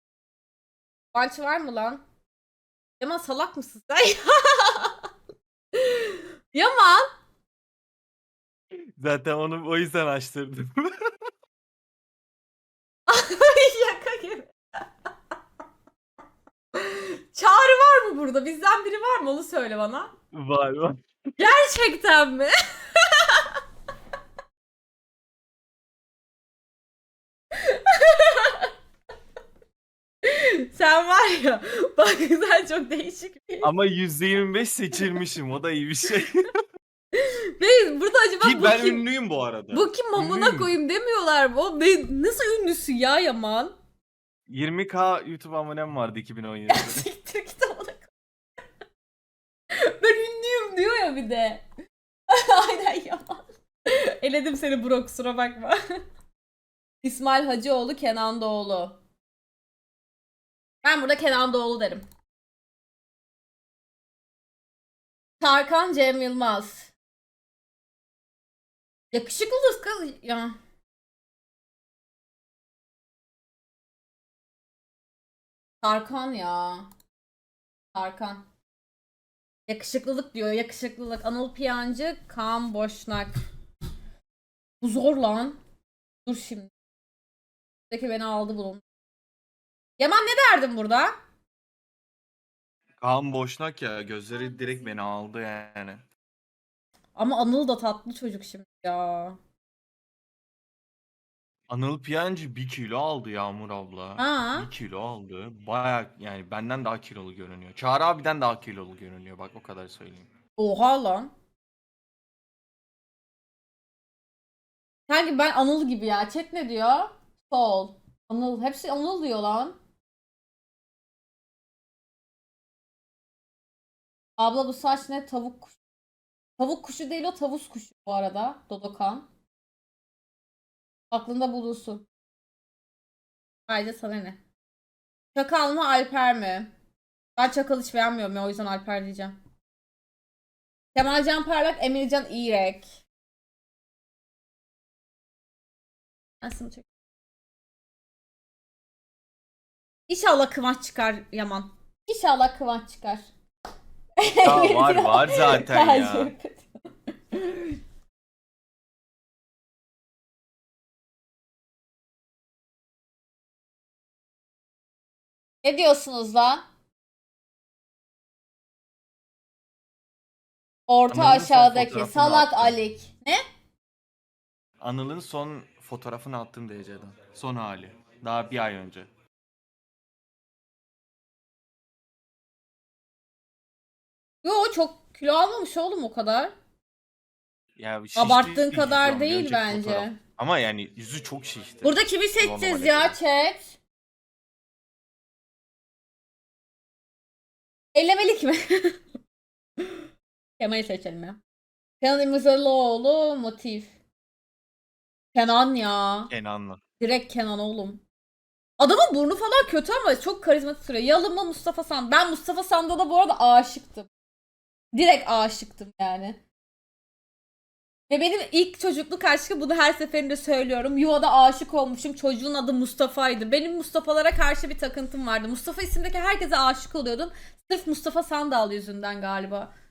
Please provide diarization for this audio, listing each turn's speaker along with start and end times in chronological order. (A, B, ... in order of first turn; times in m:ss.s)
0:01.1-0:02.0 A
0:03.0-0:05.1 A
0:05.7-0:07.1 A
0:09.0-0:11.1 B
0:13.1-0:14.5 A
0:16.7-0:20.1 A
0:20.3-0:21.0 B
0:21.4-0:23.5 A
0:27.5-0:28.7 A
0:30.2-0:33.7 A
0:33.6-0:36.4 B
0:37.1-0:39.0 A
0:38.4-0:40.7 B
0:39.7-0:43.7 A
0:44.5-0:47.1 B
0:46.7-0:48.1 A
0:49.7-0:51.6 A
0:52.3-0:55.8 A
0:57.0-0:59.0 A
1:00.8-1:02.0 A
1:05.4-1:06.9 A
1:09.1-1:10.5 A
1:15.8-1:16.9 A
1:17.9-1:18.4 A
1:19.7-1:23.3 A
1:24.8-1:25.6 A
1:26.2-1:26.7 A
1:27.9-1:28.8 A
1:30.0-1:31.1 A
1:33.0-1:36.0 B
1:37.2-1:39.4 A
1:41.7-1:50.3 B
1:44.2-1:44.7 A
1:50.6-1:51.3 A
1:55.1-1:59.8 A
2:04.4-2:05.7 A
2:06.6-2:09.3 A
2:11.1-2:12.0 A
2:13.7-2:14.4 A
2:15.3-2:16.7 A
2:17.4-2:19.4 A
2:20.9-2:22.9 A
2:26.4-2:26.8 A
2:30.1-2:33.3 A
2:34.2-2:37.8 A
2:34.4-2:36.3 B
2:45.6-2:46.6 A
2:50.9-2:53.4 A
2:51.1-2:52.8 B
2:54.8-2:59.1 B
3:04.4-3:06.5 A
3:07.8-3:13.2 B
3:08.1-3:10.2 A
3:11.8-3:13.8 A
3:17.9-3:19.0 A
3:19.8-3:20.0 A
3:20.6-3:21.4 A
3:22.0-3:23.9 A
3:25.3-3:26.3 A
3:26.3-3:26.8 B
3:27.0-3:28.0 A
3:28.8-3:34.1 A
3:34.9-3:36.4 A
3:38.1-3:49.7 A